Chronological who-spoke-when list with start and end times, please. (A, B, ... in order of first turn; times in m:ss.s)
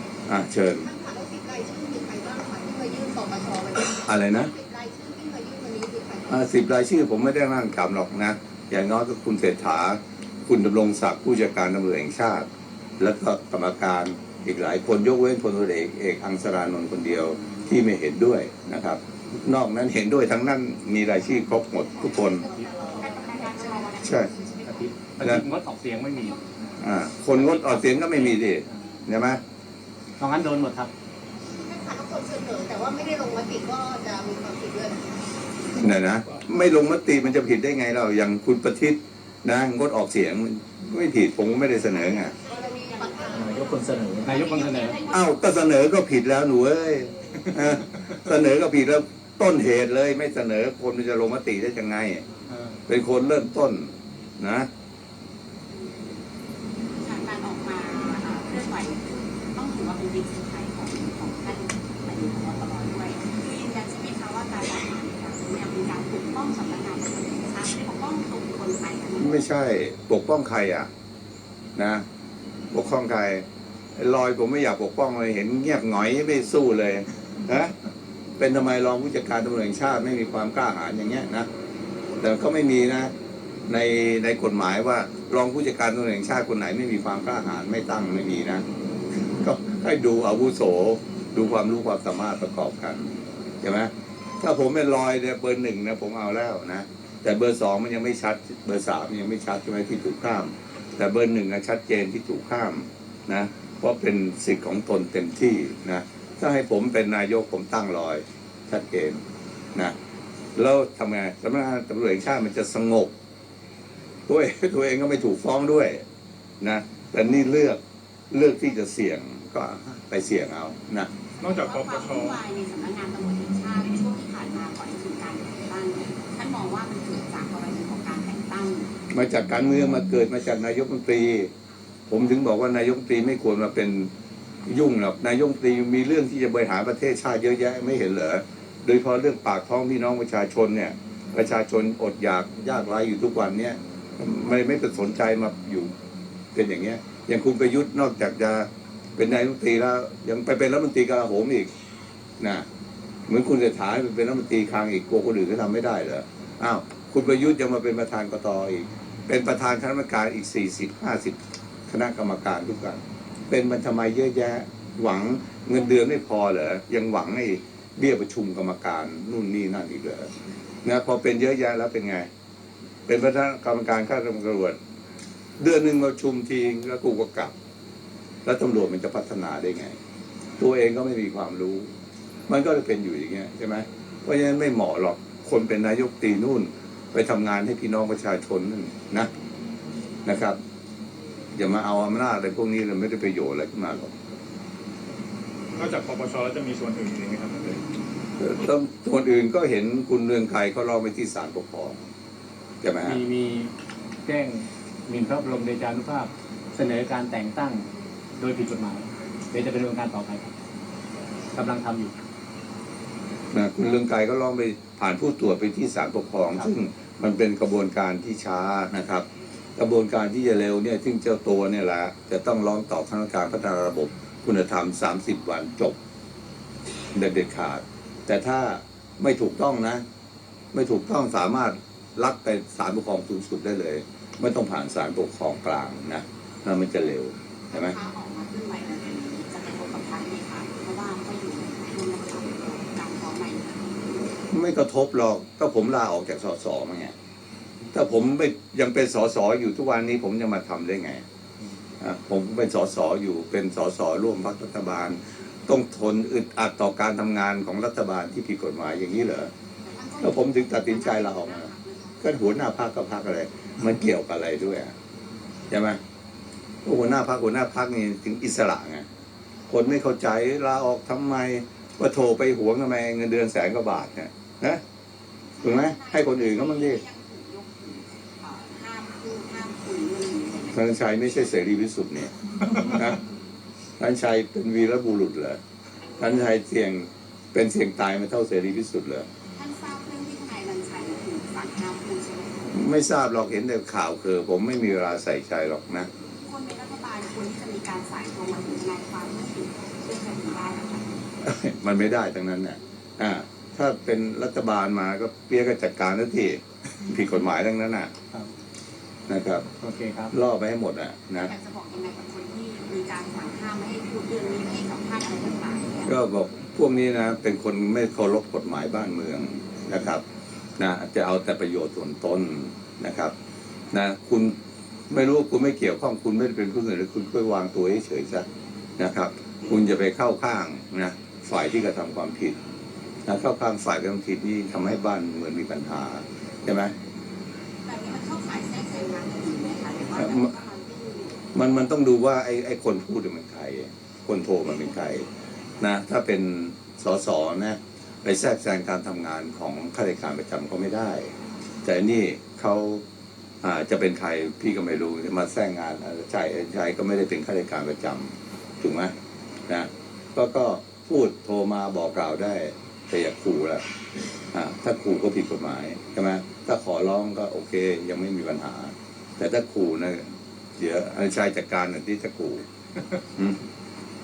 0:00.3-0:00.9 A
0:00.8-0:06.3 B
0:04.0-0:04.5 A
0:06.3-0:12.5 A
0:13.0-0:22.4 A
0:22.3-0:23.4 B
0:22.5-0:23.0 C
0:22.9-0:24.8 D
0:24.0-0:24.3 A
0:24.6-0:26.4 C
0:26.8-0:29.4 A
0:30.2-0:30.9 C
0:31.5-0:35.0 B
0:35.7-0:42.3 A
0:42.3-0:45.4 D
0:42.4-0:43.8 B
0:43.5-0:45.0 C
0:45.1-0:52.2 A
0:52.5-0:52.8 C
0:52.9-0:54.7 A
0:57.0-1:09.5 D
1:09.2-1:10.9 A
1:11.8-1:12.0 A
1:12.7-1:13.4 A
1:14.0-1:17.7 A
1:18.4-1:21.5 A
1:22.2-1:23.1 A
1:23.7-1:28.6 A
1:29.4-1:49.2 A
1:50.6-1:53.1 A
1:54.3-1:56.0 A
1:56.6-1:57.8 A
1:58.3-2:01.1 A
2:01.4-2:08.9 D
2:01.4-2:02.4 E
2:09.1-2:11.5 A
2:12.1-2:14.1 A
2:14.6-2:25.9 A
2:26.5-2:31.7 A
2:32.4-2:32.6 A
2:33.3-2:41.4 A
2:41.9-2:50.3 A
2:50.8-2:52.3 A
2:53.1-2:54.8 A
2:55.6-2:57.5 A
2:58.4-3:00.0 A
3:00.6-3:01.9 A
3:02.5-3:09.3 A
3:10.2-3:10.6 A
3:11.5-3:14.1 A
3:15.8-3:17.8 E
3:18.4-3:22.0 A
3:22.8-3:23.2 A
3:23.0-3:23.7 C
3:24.2-3:27.8 C
3:28.4-3:30.5 C
3:31.5-3:32.1 C
3:33.5-3:39.2 A
3:39.8-3:46.0 A
3:47.1-3:50.0 A
3:50.7-3:58.0 A
3:57.7-4:04.1 D
4:04.5-4:07.1 A
4:07.9-4:11.2 A
4:12.0-4:19.5 A
4:19.8-4:22.5 D
4:20.2-4:21.7 A
4:22.2-4:24.9 A
4:25.7-4:26.0 A
4:26.8-4:29.0 A
4:29.7-4:34.8 A
4:35.5-4:40.8 D
4:35.6-4:37.0 A
4:40.7-4:43.2 A
4:44.0-4:45.6 A
4:46.2-4:49.3 A
4:49.6-4:52.7 D
4:52.7-4:56.1 A
4:56.4-5:01.3 D
5:01.4-5:08.1 A
5:09.3-5:09.6 A
5:09.7-5:10.3 C
5:10.3-5:11.5 A
5:11.4-5:16.1 D
5:16.0-5:20.2 A
5:20.8-5:23.3 A
5:23.9-5:24.5 A
5:25.1-5:28.4 A
5:29.0-5:32.6 A
5:33.2-5:36.9 A
5:37.8-5:41.4 D
5:40.1-5:40.5 A
5:41.5-5:45.3 A
5:45.8-5:51.3 A
5:51.8-5:53.0 A
5:53.6-5:59.1 A
5:59.7-6:03.8 A
6:04.5-6:12.6 A